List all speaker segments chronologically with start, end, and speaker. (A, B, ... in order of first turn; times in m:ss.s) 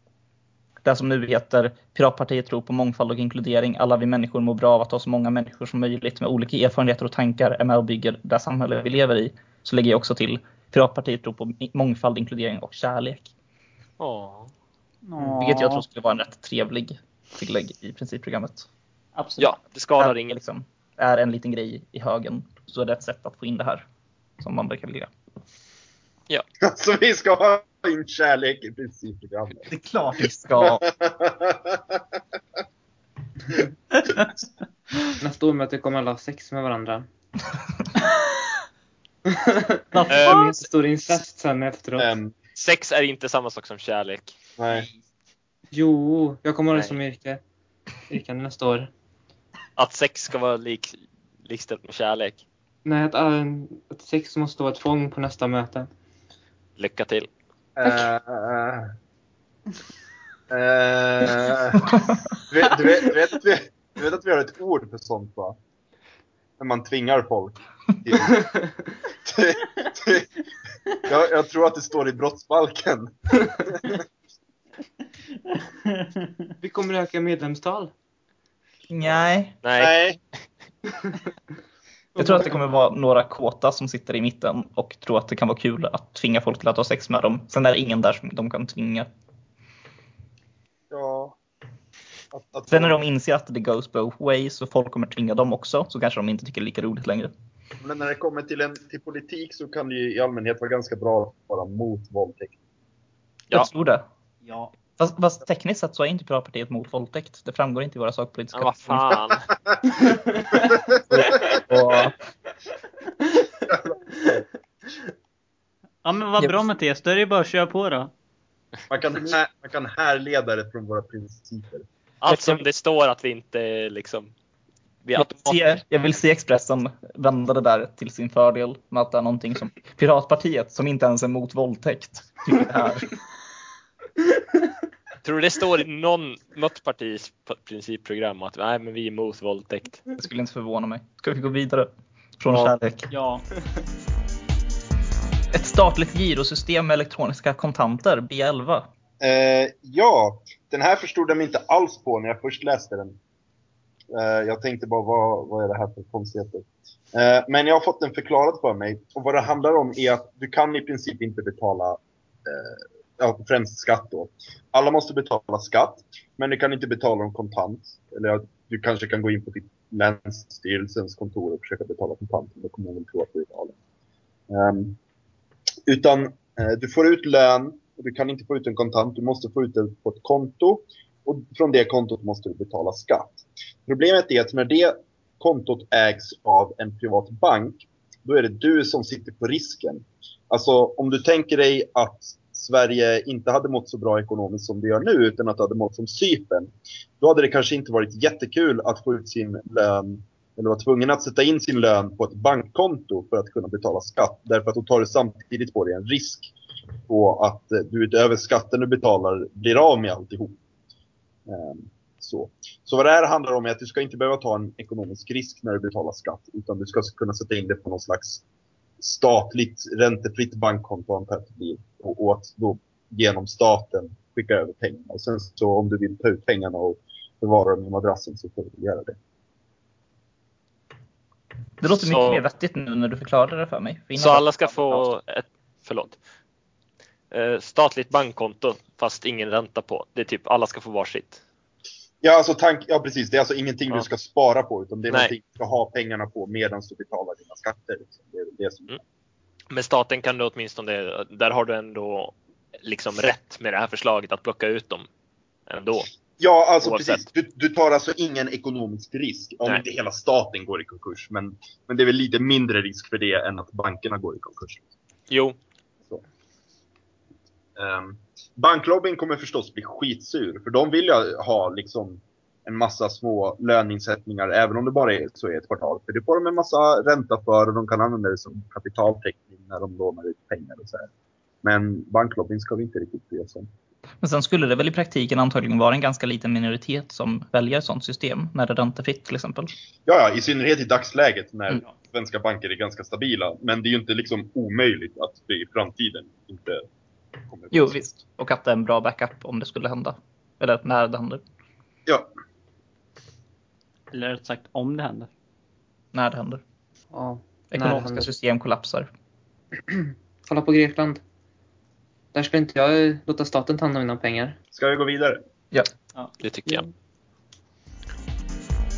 0:00.8-0:13.3 A
0:14.0-0:14.5 B
0:15.0-0:15.8 C
0:15.4-0:18.7 A
0:19.2-0:19.5 C
0:19.4-0:20.4 B
0:20.0-0:23.8 A
0:24.4-0:25.1 A
0:26.6-0:29.7 D
0:29.7-0:30.9 A
0:30.6-0:32.0 D
0:35.2-0:37.0 E
0:39.3-0:42.1 E
0:39.9-0:40.4 C
0:40.1-0:40.5 B
0:42.0-0:42.4 D
0:42.6-0:44.4 B
0:44.6-0:44.9 D
0:45.7-0:47.4 E
0:46.7-0:47.0 B
0:48.1-0:48.9 E
0:49.8-0:52.4 B
0:52.8-0:55.9 E
0:56.8-0:57.3 B
0:57.8-0:58.9 D
1:00.5-1:05.6 D
1:06.6-1:08.5 D
1:09.2-1:10.3 D
1:11.0-1:14.0 D
1:15.9-1:16.2 C
1:16.6-1:17.9 E
1:18.9-1:19.6 A
1:19.6-1:20.0 B
1:19.8-1:20.2 D
1:22.2-1:22.5 E
1:22.2-1:29.1 A
1:30.9-1:31.4 D
1:32.3-1:33.0 D
1:32.7-1:37.3 A
1:37.8-1:42.6 D
1:43.5-1:44.0 A
1:45.0-1:49.1 A
1:48.5-1:49.5 B
1:51.1-1:51.5 D
1:53.7-1:54.3 D
1:56.0-1:58.1 C
1:58.9-2:01.9 D
2:02.2-2:04.3 B
2:05.0-2:05.6 B
2:05.1-2:13.1 A
2:15.2-2:20.0 B
2:20.2-2:21.9 A
2:22.4-2:23.1 A
2:23.1-2:23.4 C
2:25.5-2:28.9 A
2:29.2-2:33.2 D
2:34.1-2:53.8 D
2:54.5-2:55.0 D
2:55.9-3:26.5 D
3:27.1-3:30.6 D
3:31.5-3:38.4 D
3:39.0-3:49.2 D
3:51.8-3:55.1 A
3:51.9-3:52.4 B
3:54.2-3:56.2 B
3:57.3-4:01.4 B
4:02.2-4:09.0 D
4:09.7-4:15.1 B
4:15.7-4:16.1 B
4:16.4-4:24.8 D
4:16.8-4:17.2 B
4:25.3-4:25.6 B
4:27.8-4:41.1 D
4:41.6-4:43.7 D
4:44.2-4:49.7 A
4:50.0-4:56.8 D
4:57.5-4:58.0 D
4:57.7-5:01.4 A
5:04.1-5:05.3 C
5:06.1-5:06.6 A
5:07.1-5:08.3 E
5:07.7-5:09.1 A
5:09.9-5:11.2 E
5:12.3-5:14.6 E
5:14.7-5:15.4 D
5:16.4-5:16.8 B